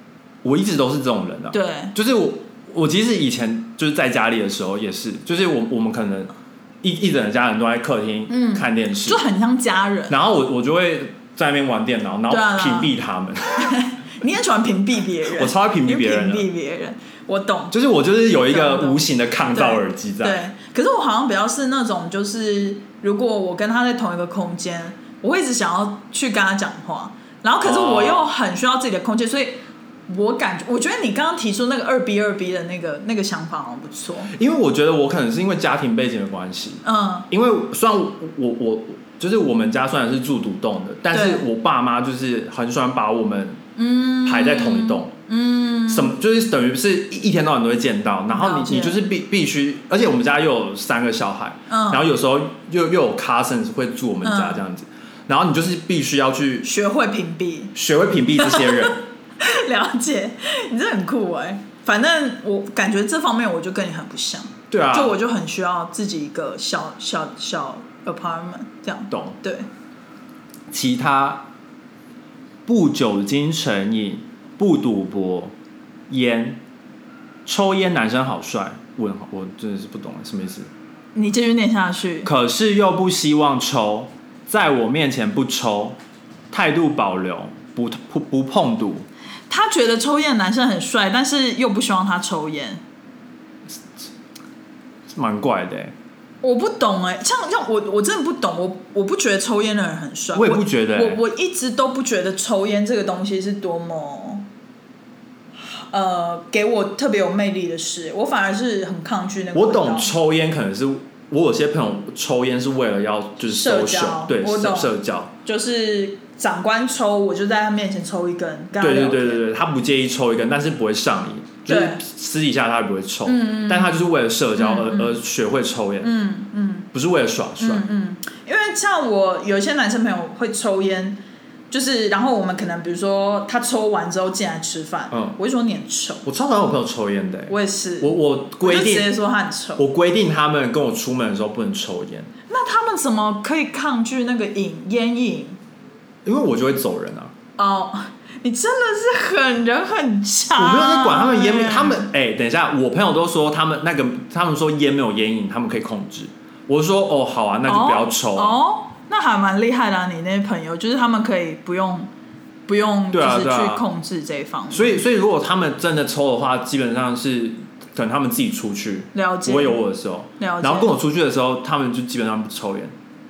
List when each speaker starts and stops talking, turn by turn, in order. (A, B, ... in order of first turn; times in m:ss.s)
0:00.4-0:09.2 A
0:01.5-0:02.0 B
0:08.3-0:10.2 B
0:10.1-0:13.8 A
0:12.3-0:12.9 B
0:13.5-0:17.8 B
0:15.4-0:16.5 A
0:17.7-0:20.4 A
0:18.5-0:34.3 B
0:27.6-0:28.3 A
0:34.3-0:43.6 A
0:36.8-0:37.3 B
0:41.1-0:41.5 B
0:43.8-0:46.1 B
0:44.3-0:45.1 A
0:45.9-0:56.7 A
0:48.3-0:49.0 B
0:51.7-0:52.1 B
0:54.2-0:54.6 B
0:56.6-0:57.7 B
0:57.8-0:59.0 A
0:58.4-1:09.7 B
1:04.7-1:05.2 A
1:09.1-1:09.4 A
1:10.7-1:11.5 A
1:12.7-1:15.5 A
1:16.1-1:16.6 A
1:17.5-1:20.7 A
1:21.2-1:22.3 B
1:22.2-1:26.0 A
1:26.5-1:29.1 A
1:29.5-1:32.8 B
1:35.1-1:35.9 A
1:36.4-1:44.5 B
1:40.4-1:41.2 A
1:45.6-1:50.1 B
1:49.5-1:55.3 A
1:53.5-1:54.9 B
1:55.4-1:59.4 B
1:58.8-2:06.1 A
2:01.7-2:02.0 B
2:03.3-2:04.0 B
2:04.6-2:05.2 B
2:06.0-2:06.9 B
2:06.9-2:07.9 A
2:07.6-2:16.3 B
2:15.1-2:15.4 A
2:16.2-2:19.1 A
2:17.5-2:19.8 B
2:19.8-2:22.3 A
2:22.5-2:25.6 B
2:26.2-2:27.3 A
2:27.6-2:32.0 B
2:30.6-2:38.6 A
2:37.7-2:42.1 B
2:42.7-2:45.0 B
2:43.1-2:43.9 A
2:44.7-2:52.9 A
2:49.1-2:49.8 B
2:50.4-2:50.9 B